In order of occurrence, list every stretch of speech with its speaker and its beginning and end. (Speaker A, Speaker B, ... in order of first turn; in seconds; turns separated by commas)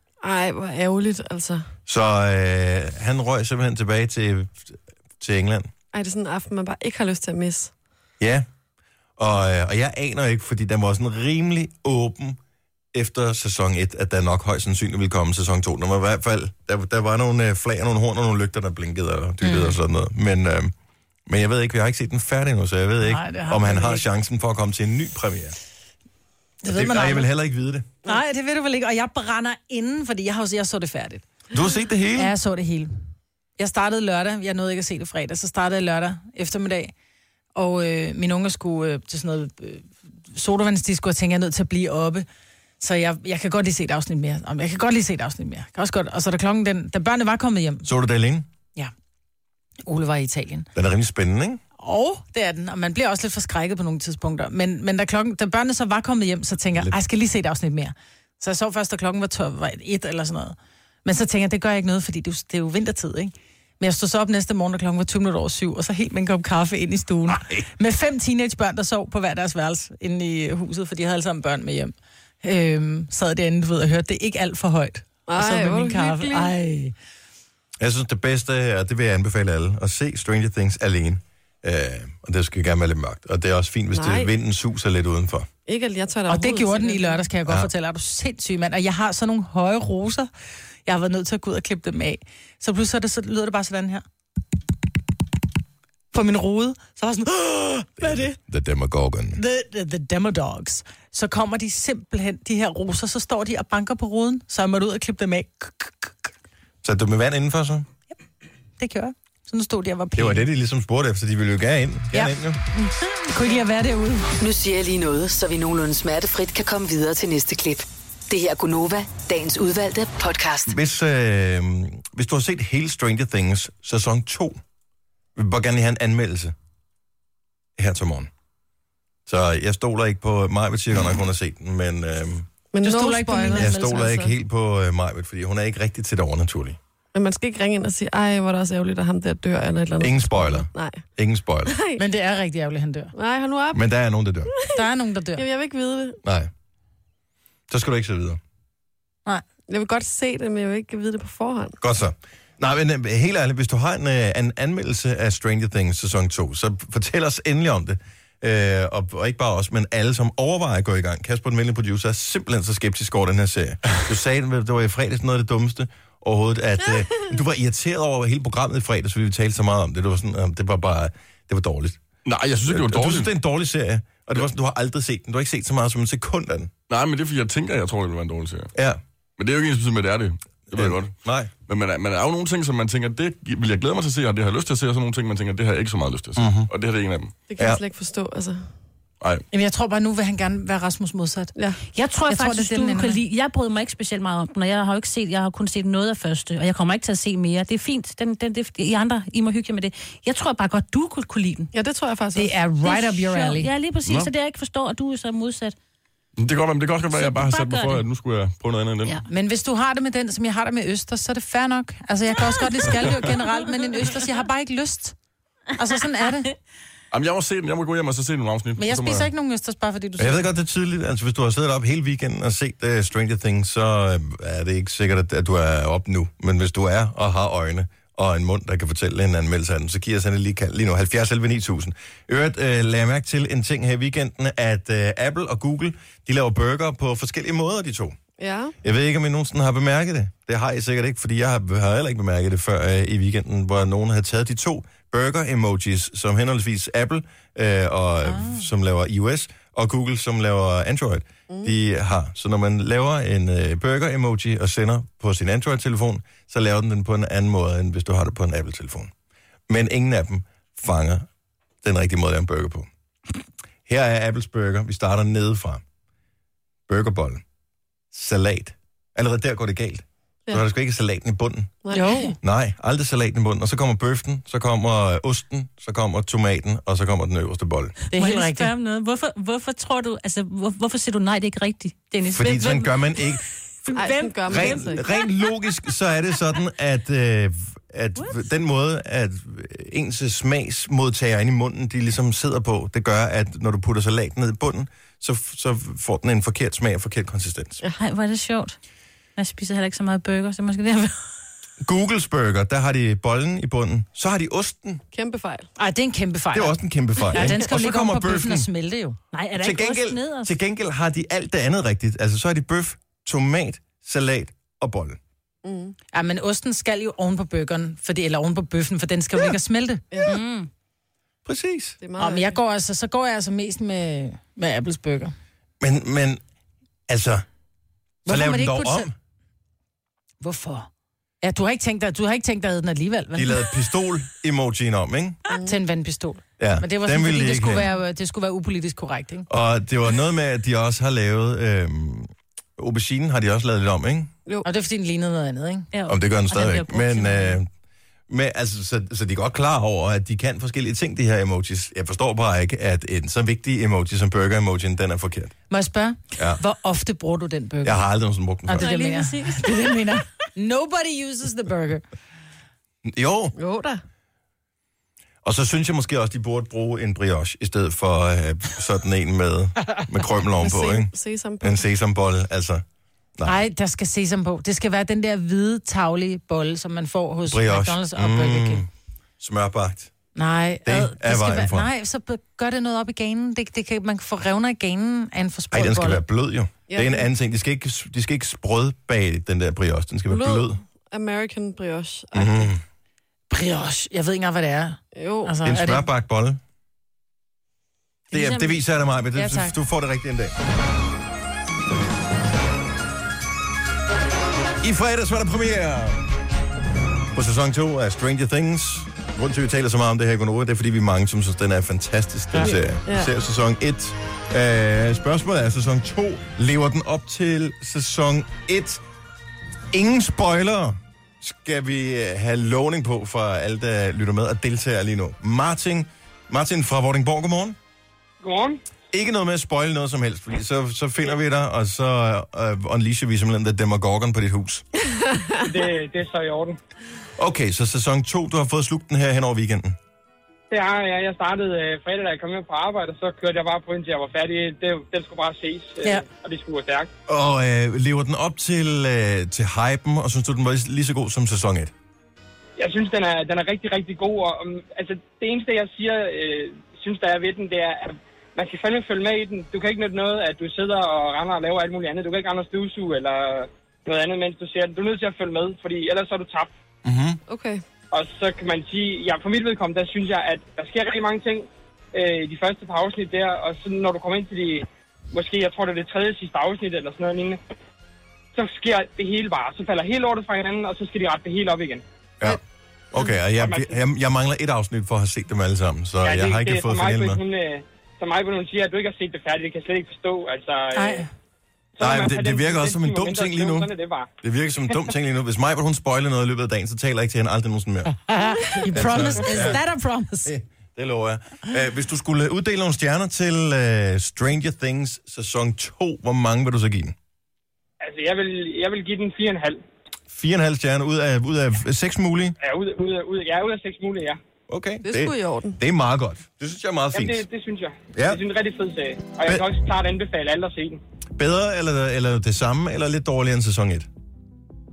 Speaker A: 0.2-1.7, Speaker B: 1.9-5.7, Speaker A: 5.9-7.7, Speaker B: 8.2-8.4, Speaker B: 9.2-12.4, Speaker B: 12.9-20.7, Speaker C: 19.4-19.7, Speaker B: 21.3-25.6, Speaker C: 23.0-24.0, Speaker C: 26.6-27.3, Speaker B: 26.7-27.9, Speaker C: 28.0-31.2, Speaker B: 31.5-32.3, Speaker C: 32.2-32.9, Speaker C: 33.6-36.9, Speaker C: 37.5-42.2, Speaker C: 42.8-47.9, Speaker B: 47.8-48.5, Speaker C: 49.8-50.7, Speaker B: 50.7-51.6, Speaker C: 51.8-76.9, Speaker B: 67.3-67.6, Speaker A: 75.3-76.5, Speaker B: 77.8-85.5, Speaker A: 83.9-84.3, Speaker A: 85.7-87.3, Speaker C: 86.3-90.3, Speaker C: 90.8-94.0, Speaker C: 96.1-98.4, Speaker B: 98.0-99.4, Speaker C: 99.3-106.1, Speaker B: 106.8-107.9, Speaker C: 108.8-110.4, Speaker B: 110.2-112.6, Speaker C: 112.1-114.3, Speaker D: 114.4-120.7, Speaker B: 120.7-124.6, Speaker B: 125.3-126.5, Speaker B: 127.8-128.3, Speaker B: 129.3-132.5, Speaker A: 132.7-134.2, Speaker C: 132.8-134.3, Speaker B: 133.5-136.8, Speaker A: 137.1-141.0, Speaker B: 140.0-141.7, Speaker A: 141.7-142.0, Speaker C: 142.0-143.1, Speaker A: 143.1-143.8, Speaker B: 143.7-144.5, Speaker A: 144.5-144.8, Speaker C: 144.7-145.4, Speaker A: 145.3-146.2, Speaker B: 146.2-146.5, Speaker B: 147.7-148.4, Speaker A: 149.7-151.8, Speaker B: 151.8-172.0, Speaker E: 172.2-173.3, Speaker B: 172.7-176.7, Speaker E: 176.9-178.7, Speaker B: 178.7-179.0, Speaker E: 179.4-181.1, Speaker B: 180.7-181.5, Speaker E: 181.7-187.3, Speaker B: 186.4-186.7, Speaker A: 187.5-188.6, Speaker C: 189.5-191.5, Speaker F: 191.9-201.7, Speaker C: 192.3-193.2, Speaker A: 201.7-202.6, Speaker C: 202.3-203.7, Speaker F: 202.8-205.7, Speaker E: 204.0-204.3, Speaker E: 206.4-209.2, Speaker F: 207.1-208.0, Speaker C: 209.3-215.1, Speaker C: 215.8-216.5, Speaker E: 217.1-219.3, Speaker C: 218.8-220.5, Speaker B: 220.2-238.2, Speaker A: 238.4-238.8, Speaker B: 238.8-259.1, Speaker C: 248.2-248.6, Speaker B: 259.7-261.3, Speaker B: 261.8-262.9, Speaker B: 263.9-265.8, Speaker B: 266.9-267.4, Speaker B: 268.1-271.8, Speaker A: 271.8-272.3, Speaker C: 271.9-272.3, Speaker B: 272.4-277.9, Speaker C: 278.1-278.7, Speaker F: 278.1-285.3, Speaker B: 282.3-283.4, Speaker A: 283.9-285.0, Speaker B: 284.5-297.8, Speaker F: 297.9-298.8, Speaker F: 299.4-301.1, Speaker B: 301.8-305.0, Speaker A: 305.1-305.7, Speaker C: 305.8-309.2, Speaker B: 306.5-308.7, Speaker F: 309.3-310.5, Speaker B: 309.6-315.2, Speaker A: 315.6-315.9, Speaker C: 316.1-320.2, Speaker F: 320.2-320.7, Speaker B: 321.4-322.0, Speaker A: 322.0-322.6, Speaker C: 322.2-325.3, Speaker B: 325.8-326.4, Speaker B: 327.1-327.4, Speaker C: 328.2-329.1, Speaker B: 328.2-329.1, Speaker C: 330.4-330.9, Speaker C: 331.4-333.7, Speaker B: 333.3-335.4, Speaker C: 335.6-339.5, Speaker B: 336.6-337.9, Speaker B: 339.5-344.3, Speaker C: 344.6-345.9, Speaker F: 345.9-347.6, Speaker B: 346.1-347.7, Speaker B: 348.3-355.5, Speaker C: 355.7-358.0, Speaker B: 357.8-358.9, Speaker C: 358.6-362.0, Speaker F: 358.8-360.0, Speaker B: 363.0-363.5, Speaker A: 363.6-364.0, Speaker B: 365.4-372.8, Speaker A: 370.6-371.8, Speaker C: 373.4-378.8, Speaker B: 377.5-378.9, Speaker B: 379.4-380.1, Speaker C: 380.4-386.2, Speaker B: 380.8-381.9, Speaker B: 385.7-390.8, Speaker A: 386.9-387.3, Speaker A: 390.3-392.7, Speaker B: 392.3-392.8, Speaker C: 393.5-396.1, Speaker A: 395.1-395.6, Speaker B: 395.6-396.6, Speaker F: 398.3-398.8, Speaker B: 398.3-400.5, Speaker C: 399.3-399.7, Speaker B: 404.8-406.2, Speaker B: 407.3-419.0, Speaker A: 412.6-413.3, Speaker B: 419.9-427.8, Speaker G: 428.4-428.8, Speaker B: 429.1-434.8, Speaker A: 435.3-435.6, Speaker G: 435.6-436.8, Speaker B: 437.4-439.9, Speaker G: 440.7-447.1, Speaker B: 447.3-451.9, Speaker G: 452.8-466.7, Speaker B: 467.0-467.4, Speaker A: 467.5-467.8, Speaker G: 468.1-477.6, Speaker G: 478.5-482.0, Speaker B: 483.1-487.4, Speaker G: 483.6-484.0, Speaker G: 486.2-491.3, Speaker C: 490.9-491.3, Speaker G: 492.0-494.3, Speaker B: 492.0-498.1, Speaker C: 498.3-500.5, Speaker B: 498.8-499.8, Speaker B: 500.4-507.1, Speaker G: 508.0-509.8, Speaker B: 510.3-512.5, Speaker G: 512.6-514.4, Speaker B: 514.7-517.4, Speaker A: 515.0-515.8, Speaker G: 517.1-521.0, Speaker B: 518.1-518.4, Speaker B: 521.4-524.1